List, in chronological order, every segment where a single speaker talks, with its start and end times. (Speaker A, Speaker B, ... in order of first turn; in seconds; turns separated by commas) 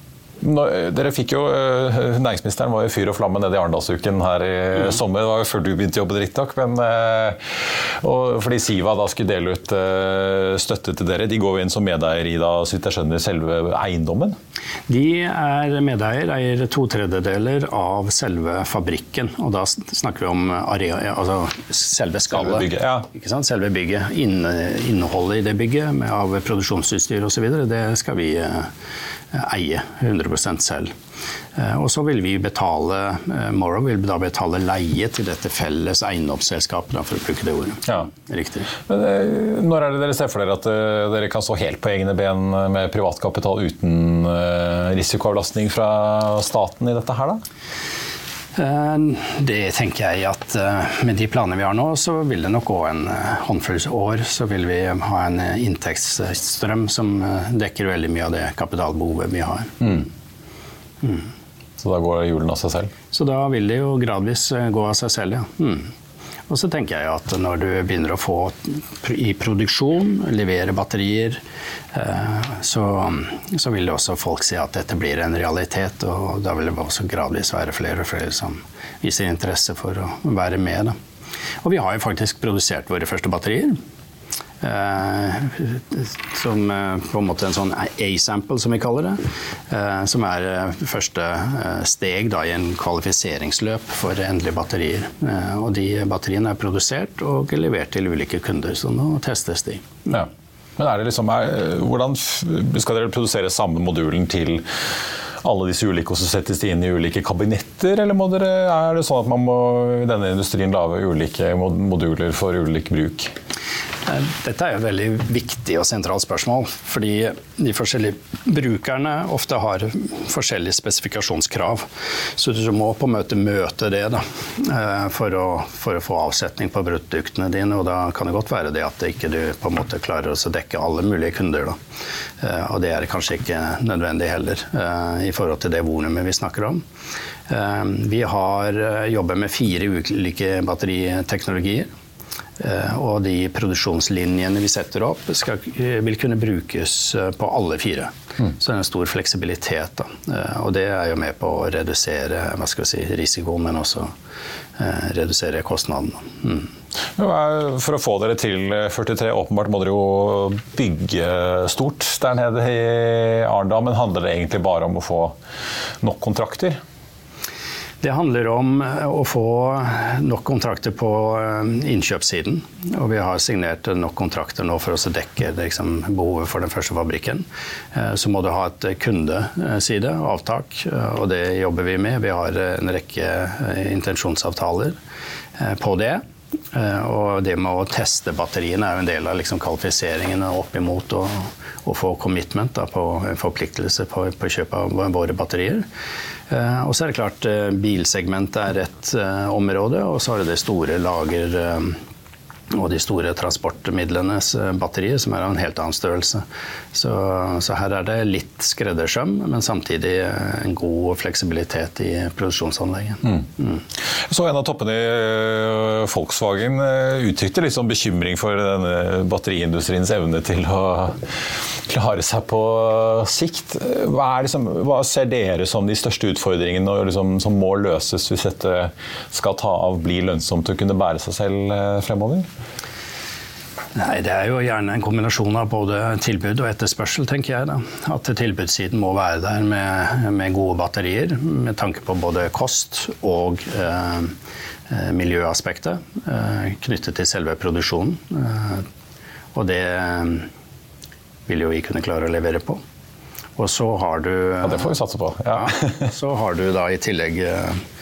Speaker A: 0.4-14.4, Speaker B: 14.9-28.7, Speaker A: 22.3-23.1, Speaker B: 29.3-30.9, Speaker B: 31.6-38.7, Speaker A: 38.8-47.4, Speaker B: 48.5-60.0, Speaker A: 61.8-62.9, Speaker B: 63.1-65.9, Speaker B: 66.5-71.4, Speaker B: 71.9-81.0, Speaker B: 81.6-83.8, Speaker B: 84.6-100.0, Speaker A: 100.1-104.7, Speaker A: 105.4-113.3, Speaker B: 114.1-131.8, Speaker B: 132.4-136.8, Speaker B: 137.5-141.9, Speaker B: 142.6-154.1, Speaker B: 154.8-156.7, Speaker A: 157.2-165.3, Speaker A: 166.0-166.8, Speaker B: 168.0-184.9, Speaker B: 185.6-195.8, Speaker B: 196.5-202.0, Speaker B: 202.7-213.8, Speaker A: 214.2-232.5, Speaker B: 233.9-244.3, Speaker B: 244.9-248.8, Speaker B: 249.5-250.5, Speaker B: 251.5-252.8, Speaker B: 253.6-254.9, Speaker A: 254.6-256.1, Speaker B: 255.5-257.8